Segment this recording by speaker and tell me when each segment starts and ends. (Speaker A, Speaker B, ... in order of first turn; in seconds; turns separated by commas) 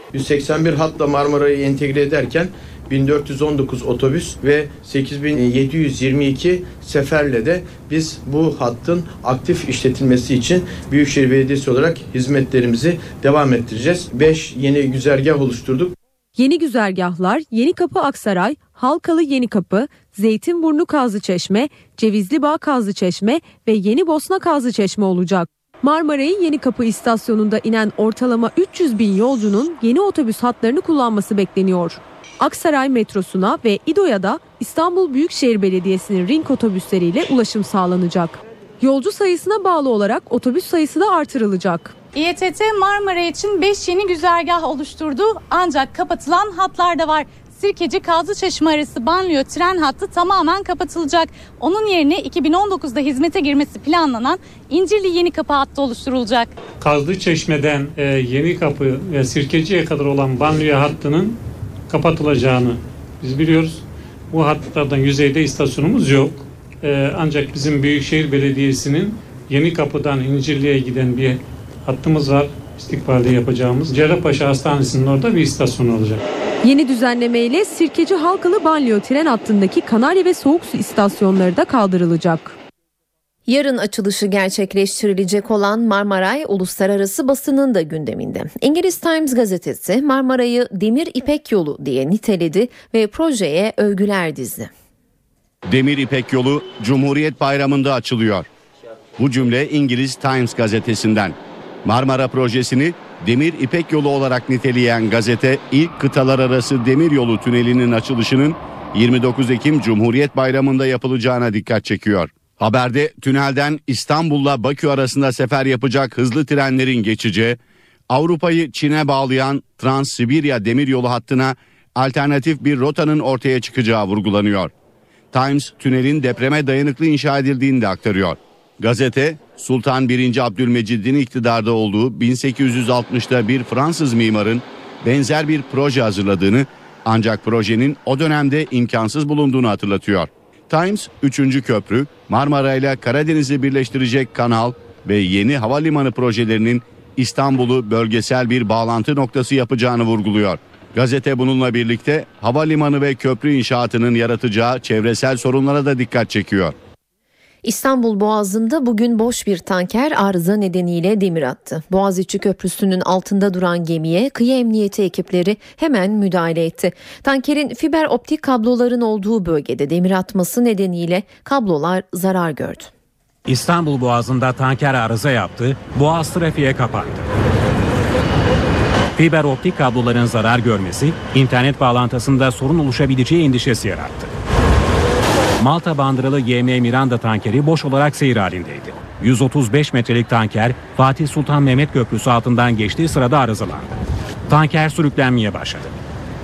Speaker A: 0.1-15.9, Speaker B: 16.4-41.9, Speaker C: 42.1-56.5, Speaker D: 56.8-61.4, Speaker D: 61.9-76.2, Speaker B: 76.6-82.5, Speaker E: 83.5-94.7, Speaker F: 95.7-98.5, Speaker F: 99.2-117.6, Speaker F: 118.1-124.7, Speaker F: 125.3-156.7, Speaker E: 157.6-172.9, Speaker G: 173.5-177.2, Speaker G: 179.2-184.3, Speaker G: 185.6-193.9, Speaker G: 194.5-195.9